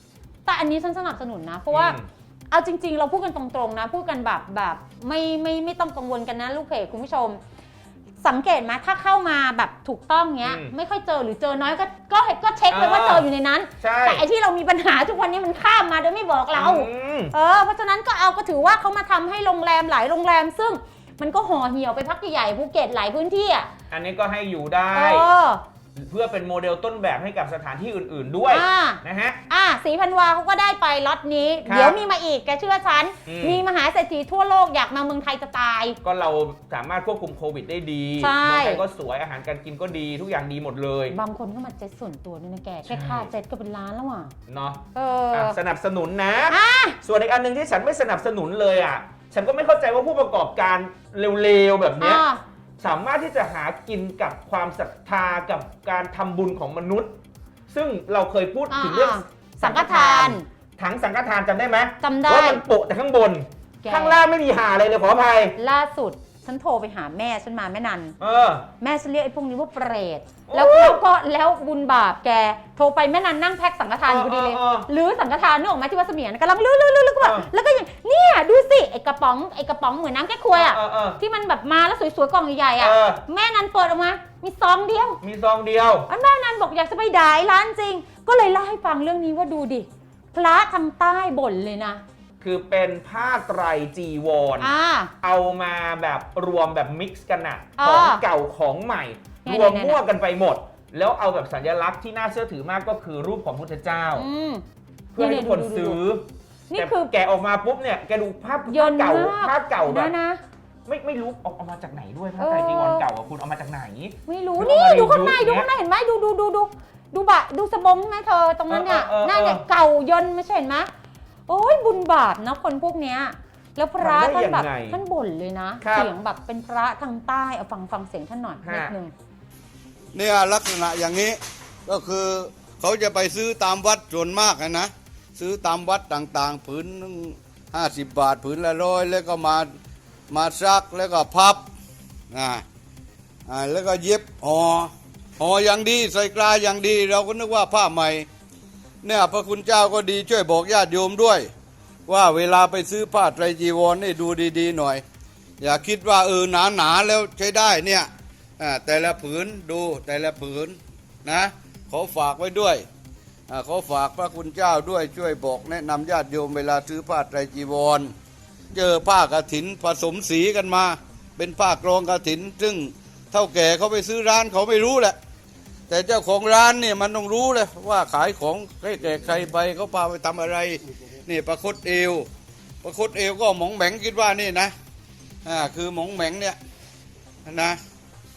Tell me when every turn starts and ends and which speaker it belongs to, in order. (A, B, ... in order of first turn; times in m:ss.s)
0:00.4-0:02.0 A
0:01.7-0:02.1 B
0:02.5-0:07.4 A
0:08.2-0:23.7 A
0:10.4-0:10.7 B
0:12.7-0:13.3 B
0:13.8-0:14.2 B
0:16.5-0:17.3 B
0:23.9-0:25.2 B
0:24.9-0:25.6 A
0:26.0-0:29.4 B
0:28.5-0:36.0 A
0:31.6-0:32.0 B
0:33.2-0:33.6 B
0:36.0-0:41.2 B
0:38.2-0:38.8 A
0:41.1-0:44.3 A
0:42.9-0:43.3 B
0:44.5-0:52.2 B
0:44.9-0:45.6 A
0:46.5-0:47.0 A
0:52.0-0:52.4 A
0:52.8-0:57.2 B
0:57.7-1:05.6 B
0:58.7-1:00.4 A
1:02.0-1:02.6 A
1:03.8-1:04.2 A
1:05.6-1:08.1 A
1:08.2-1:08.7 B
1:08.8-1:25.2 A
1:10.5-1:11.0 B
1:14.1-1:14.9 B
1:17.2-1:17.5 B
1:20.5-1:21.2 B
1:22.8-1:23.2 B
1:25.2-1:26.1 B
1:26.1-1:32.0 A
1:32.4-1:34.7 B
1:34.6-1:35.1 A
1:35.2-1:44.3 B
1:37.8-1:38.2 A
1:39.4-1:40.0 A
1:44.1-1:44.6 A
1:45.1-1:50.1 B
1:45.2-1:46.0 A
1:46.7-1:47.1 A
1:48.7-1:50.4 A
1:50.9-1:55.7 B
1:52.4-1:53.0 A
1:54.2-2:00.9 A
1:58.7-1:59.6 B
2:01.5-2:09.1 A
2:04.0-2:05.0 B
2:05.8-2:06.1 B
2:08.6-2:08.9 B
2:10.1-2:19.7 C
2:20.3-2:21.6 C
2:22.3-2:22.6 C
2:23.5-2:28.3 C
2:29.0-2:31.5 C
2:32.1-2:35.0 C
2:35.6-2:42.8 C
2:43.5-2:48.1 C
2:48.7-2:55.2 C
2:55.9-3:02.3 C
3:02.8-3:04.7 C
3:05.4-3:06.6 C
3:07.5-3:07.8 C